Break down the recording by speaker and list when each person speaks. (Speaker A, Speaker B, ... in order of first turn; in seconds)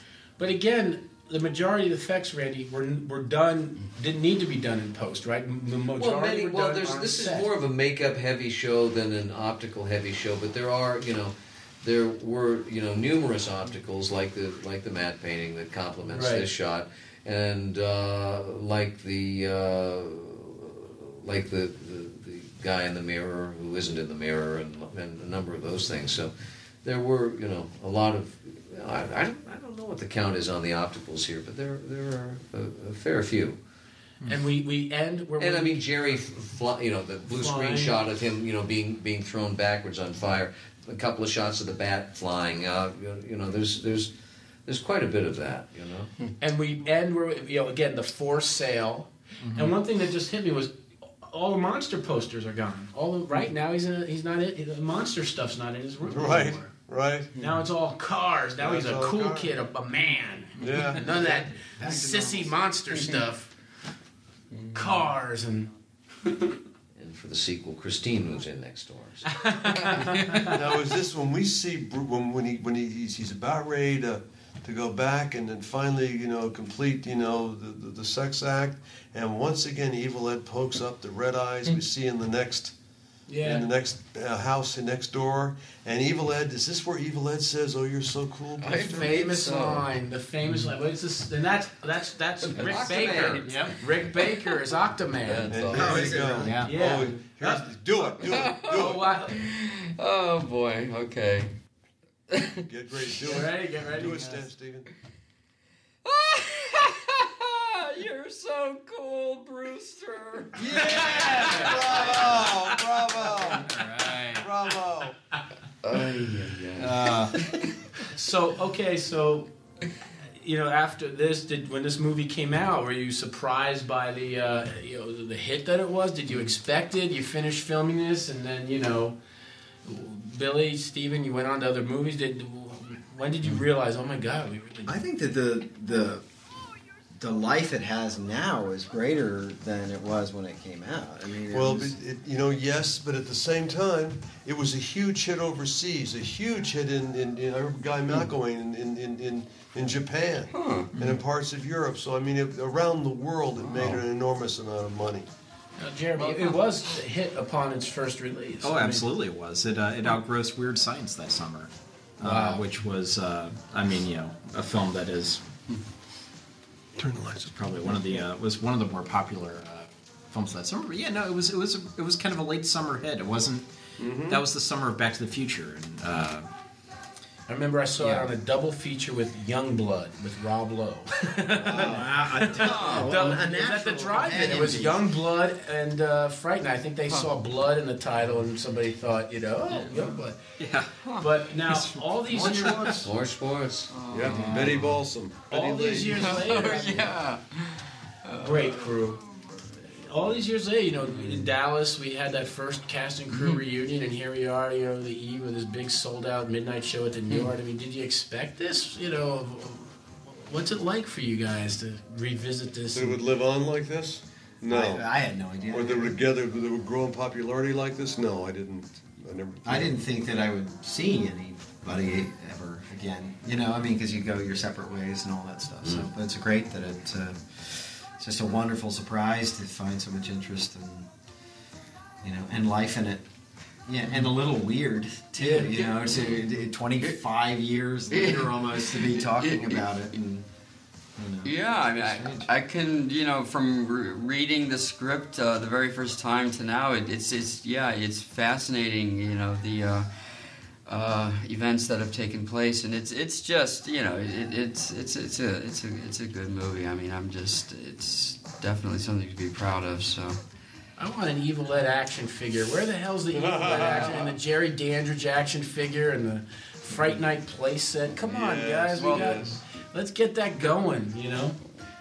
Speaker A: 0.4-7.5, 16.1-16.5, 34.2-35.9, 37.3-38.0, 46.4-63.5, 64.7-66.6, 69.3-70.6, 83.3-83.7, 88.8-99.4, 103.2-104.5, 110.6-113.5, 118.1-119.5, 120.4-129.2, 129.8-134.9, 155.8-159.1, 162.2-162.6, 177.5-190.4, 191.2-193.1, 195.5-197.2, 198.4-199.2, 199.9-213.2, 261.0-271.6
Speaker B: 6.0-33.6, 35.4-44.1, 44.7-46.1, 67.0-69.3, 92.5-93.6, 95.5-96.2, 193.0-193.9
Speaker C: 49.4-49.8, 90.4-90.7, 93.4-93.8, 96.4-96.7, 113.3-114.5, 153.7-154.0, 158.6-165.4, 167.5-176.5, 178.0-178.3, 190.6-191.0, 191.7-192.7, 194.3-194.8
Speaker D: 56.1-57.4, 58.6-59.5, 60.6-61.2, 70.2-82.7, 83.4-89.5, 95.5-99.1, 102.7-104.9, 110.5-115.2, 116.8-117.3, 141.5-155.3, 167.0-168.2, 174.0-174.4, 181.7-182.1, 194.1-196.7, 212.9-215.1, 215.7-219.9, 263.3-264.4, 268.2-269.6
Speaker E: 61.5-62.6, 95.7-96.6, 117.0-117.2, 134.9-136.3, 137.1-142.0, 181.7-185.1, 192.3-193.1, 214.7-216.2, 219.7-231.1, 232.2-233.3, 233.9-240.5, 241.2-242.5
Speaker F: 64.5-65.0, 69.7-70.5, 88.6-89.9, 92.4-94.5, 95.2-96.2, 98.2-101.5, 102.3-102.7, 106.0-112.3, 115.8-117.8, 150.5-150.9, 182.6-183.1, 189.7-190.2, 193.9-195.0, 196.0-199.7, 203.3-203.6, 235.4-236.5, 238.1-239.9, 241.4-260.4